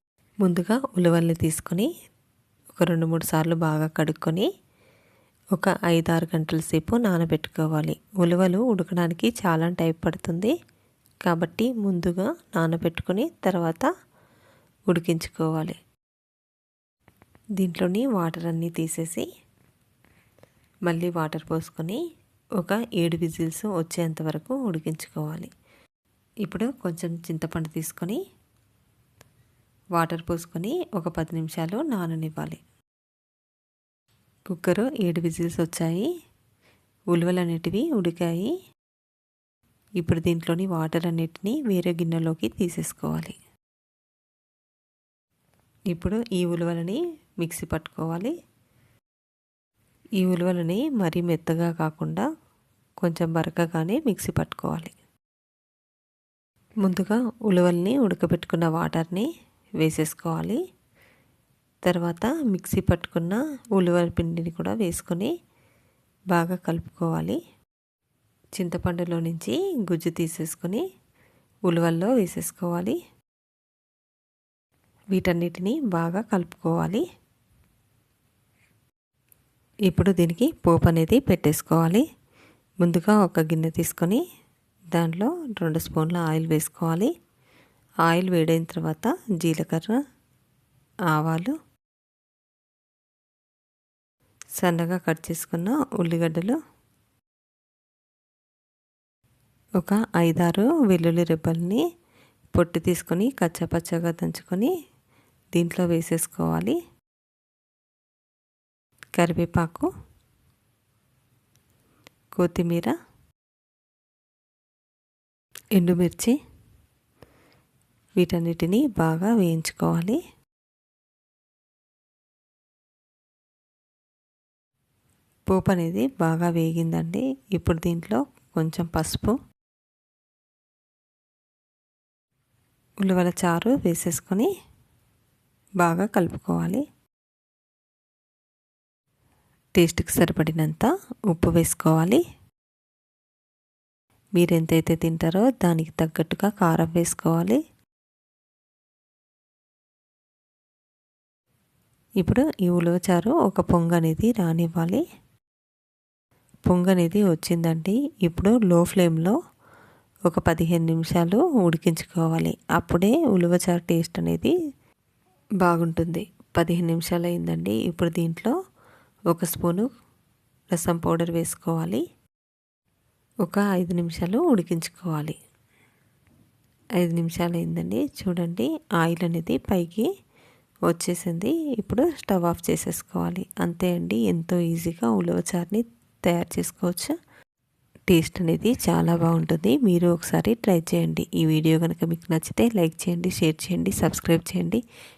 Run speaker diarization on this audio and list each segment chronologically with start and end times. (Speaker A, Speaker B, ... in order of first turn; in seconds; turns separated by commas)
Speaker A: 0.4-1.9, Speaker A: 2.7-4.5, Speaker A: 5.5-10.5, Speaker A: 11.2-13.9, Speaker A: 14.9-15.8, Speaker A: 17.6-19.2, Speaker A: 20.9-22.0, Speaker A: 22.6-25.5, Speaker A: 26.4-28.2, Speaker A: 29.9-32.6, Speaker A: 34.5-36.1, Speaker A: 37.1-38.5, Speaker A: 40.0-43.4, Speaker A: 45.9-48.3, Speaker A: 50.2-52.3, Speaker A: 53.0-54.9, Speaker A: 56.8-60.6, Speaker A: 61.9-65.3, Speaker A: 66.3-67.4, Speaker A: 68.5-70.8, Speaker A: 71.7-73.0, Speaker A: 75.1-77.0, Speaker A: 79.9-82.0, Speaker A: 82.8-84.2, Speaker A: 84.9-87.1, Speaker A: 88.0-90.0, Speaker A: 91.1-91.5, Speaker A: 94.6-96.6, Speaker A: 99.8-101.8, Speaker A: 102.5-104.7, Speaker A: 105.5-106.8, Speaker A: 109.2-109.9, Speaker A: 112.3-112.9, Speaker A: 115.8-116.3, Speaker A: 118.2-120.2, Speaker A: 125.5-129.4, Speaker A: 133.0-134.5, Speaker A: 135.8-136.8, Speaker A: 139.8-142.2, Speaker A: 144.3-147.6, Speaker A: 152.2-155.0, Speaker A: 156.7-159.4, Speaker A: 160.3-164.5, Speaker A: 165.6-168.6, Speaker A: 169.3-169.9, Speaker A: 170.7-172.0, Speaker A: 173.4-175.3, Speaker A: 177.0-180.1, Speaker A: 180.9-187.1, Speaker A: 188.1-194.8